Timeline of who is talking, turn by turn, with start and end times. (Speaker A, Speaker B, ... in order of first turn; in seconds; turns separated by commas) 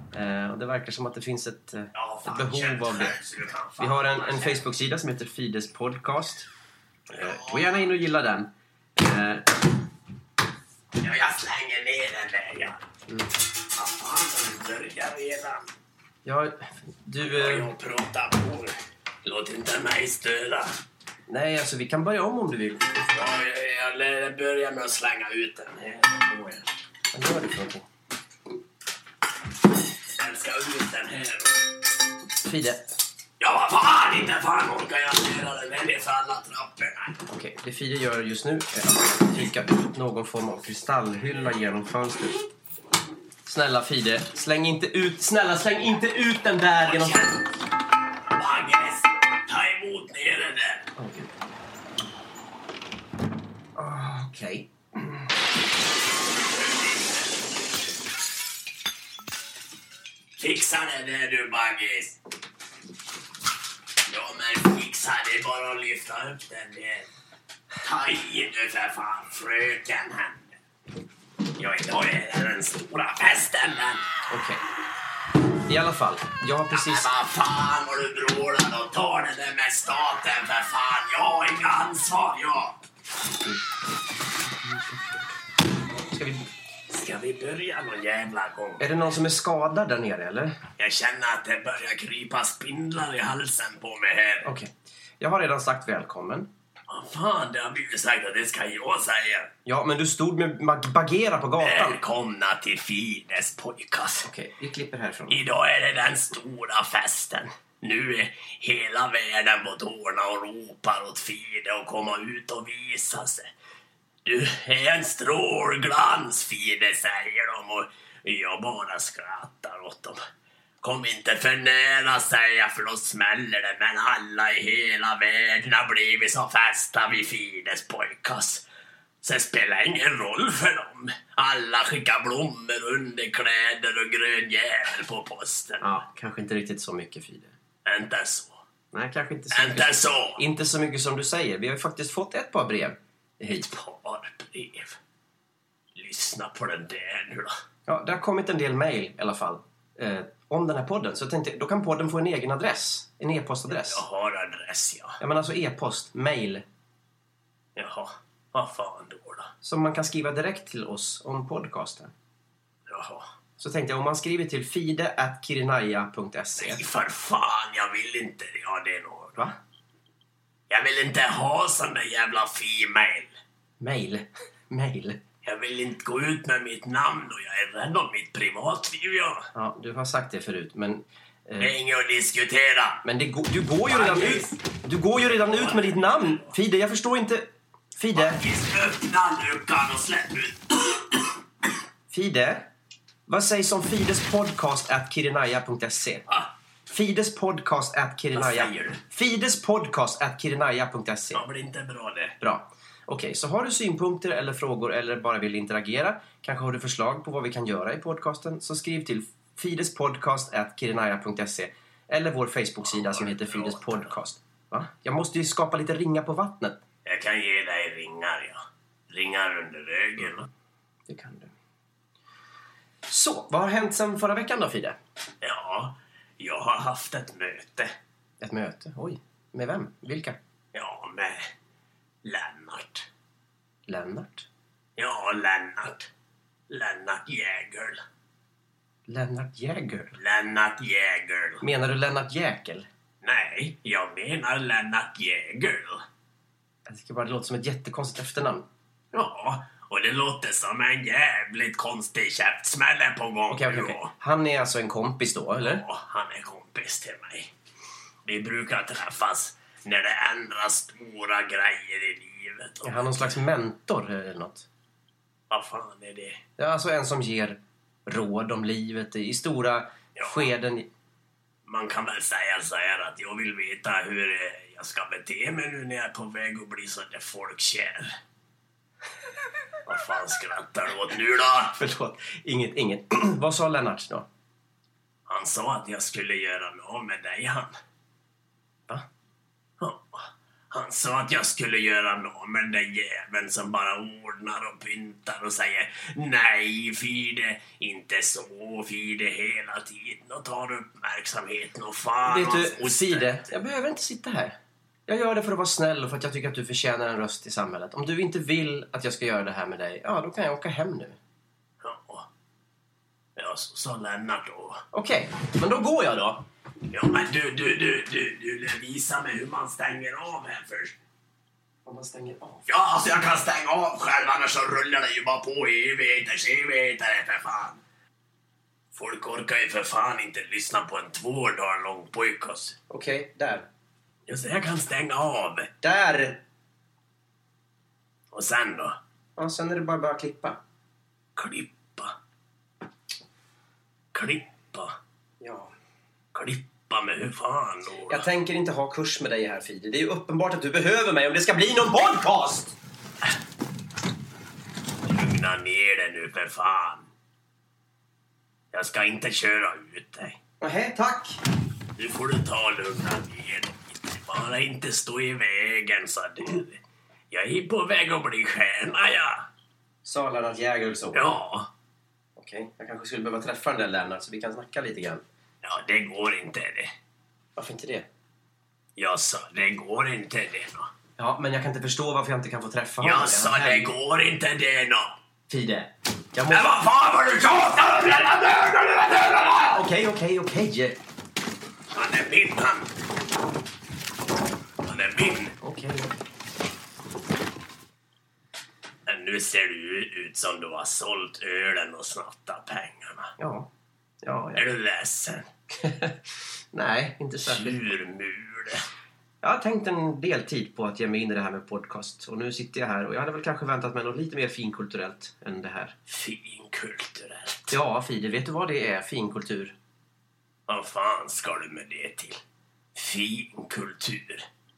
Speaker A: 0.1-3.1, Speaker B: 1.9-4.6, Speaker A: 3.8-6.5, Speaker A: 7.1-9.5, Speaker B: 7.1-7.9, Speaker B: 11.0-12.8, Speaker B: 13.7-15.7, Speaker A: 16.2-17.7, Speaker B: 17.2-20.7, Speaker A: 21.3-23.0, Speaker B: 23.1-26.6, Speaker A: 27.1-27.8, Speaker B: 30.2-31.7, Speaker A: 32.4-32.9, Speaker B: 33.4-37.2, Speaker A: 37.3-42.4, Speaker A: 43.5-47.2, Speaker B: 46.8-47.5, Speaker B: 48.3-50.9, Speaker A: 51.0-51.3, Speaker A: 53.8-55.3, Speaker B: 56.5-57.3, Speaker B: 60.4-62.2, Speaker B: 64.1-67.1, Speaker B: 67.8-70.5, Speaker B: 71.6-74.0, Speaker A: 74.3-74.6, Speaker A: 75.7-77.1, Speaker B: 76.7-82.8, Speaker A: 84.7-85.2, Speaker A: 86.0-86.5, Speaker B: 86.9-89.1, Speaker A: 88.8-90.6, Speaker B: 90.8-94.5, Speaker A: 94.4-96.5, Speaker B: 96.9-99.5, Speaker A: 99.7-102.0, Speaker B: 101.6-104.3, Speaker A: 104.2-105.4, Speaker B: 105.3-113.5, Speaker B: 114.2-120.2, Speaker B: 120.8-128.6, Speaker B: 129.2-136.0, Speaker A: 135.8-137.5, Speaker B: 137.8-138.6, Speaker A: 138.9-143.7, Speaker B: 139.5-140.4, Speaker B: 143.6-145.0, Speaker B: 145.9-147.5, Speaker A: 147.9-154.0, Speaker B: 153.8-155.2, Speaker A: 155.2-156.6, Speaker B: 157.8-159.5, Speaker A: 159.6-162.1, Speaker B: 162.9-163.3, Speaker A: 163.6-166.8, Speaker B: 166.6-169.4, Speaker B: 170.7-173.4, Speaker A: 173.8-175.2, Speaker B: 175.4-179.5, Speaker A: 179.5-181.7, Speaker B: 181.6-183.0, Speaker A: 183.0-188.4, Speaker B: 183.9-184.6, Speaker B: 185.2-186.5, Speaker B: 188.2-191.2, Speaker A: 192.1-192.7, Speaker A: 193.3-196.2, Speaker A: 196.9-201.4, Speaker B: 198.3-199.0, Speaker B: 201.3-202.3, Speaker A: 202.4-216.8, Speaker B: 212.8-214.1, Speaker B: 217.0-220.5, Speaker A: 221.1-221.5, Speaker A: 223.1-225.0, Speaker B: 225.4-227.9, Speaker A: 228.4-230.4, Speaker B: 230.7-231.4, Speaker B: 232.2-233.1, Speaker A: 233.9-234.5, Speaker B: 235.0-236.1, Speaker B: 236.7-238.0, Speaker A: 239.1-240.2, Speaker B: 240.2-241.7, Speaker A: 241.6-242.9, Speaker B: 243.2-246.0, Speaker A: 246.9-248.7, Speaker B: 249.1-254.1, Speaker A: 253.5-255.8, Speaker B: 255.6-257.5, Speaker B: 258.2-263.4, Speaker A: 262.9-264.6, Speaker B: 265.5-266.4, Speaker A: 266.6-270.9, Speaker B: 270.2-270.5, Speaker B: 271.6-278.1, Speaker B: 279.9-281.8, Speaker A: 281.8-284.3, Speaker B: 285.3-287.7, Speaker B: 289.8-303.4, Speaker A: 302.3-304.6, Speaker A: 305.1-311.2, Speaker B: 311.8-312.3, Speaker B: 313.4-314.8, Speaker A: 314.9-316.4, Speaker B: 316.9-320.9, Speaker A: 321.9-322.6, Speaker B: 322.7-327.8, Speaker B: 328.9-332.8, Speaker A: 332.9-333.7, Speaker B: 334.3-335.7, Speaker A: 335.8-336.4, Speaker B: 338.3-339.0, Speaker A: 339.4-340.6, Speaker B: 341.4-342.1, Speaker B: 344.1-344.9, Speaker A: 345.4-345.7, Speaker B: 346.3-348.2, Speaker A: 348.1-352.8, Speaker B: 355.0-357.1, Speaker B: 358.7-360.4, Speaker A: 360.6-361.4, Speaker B: 362.0-366.8, Speaker B: 367.3-369.5, Speaker A: 370.0-371.3, Speaker B: 371.1-371.7, Speaker A: 372.4-375.2, Speaker B: 375.6-376.9, Speaker A: 377.6-378.1, Speaker B: 379.0-380.9, Speaker A: 381.2-383.9, Speaker B: 383.0-385.2, Speaker A: 385.5-386.8, Speaker B: 386.5-389.8, Speaker A: 389.7-391.0, Speaker B: 391.9-392.9, Speaker B: 394.8-395.6, Speaker A: 395.6-396.1, Speaker B: 399.1-403.3, Speaker A: 403.4-403.7, Speaker A: 404.2-404.6, Speaker B: 404.6-405.4, Speaker A: 405.8-406.1, Speaker A: 406.7-407.9, Speaker B: 407.4-408.8, Speaker A: 409.4-415.9, Speaker B: 416.1-417.8, Speaker A: 417.7-419.8, Speaker B: 420.7-422.4, Speaker B: 422.9-424.4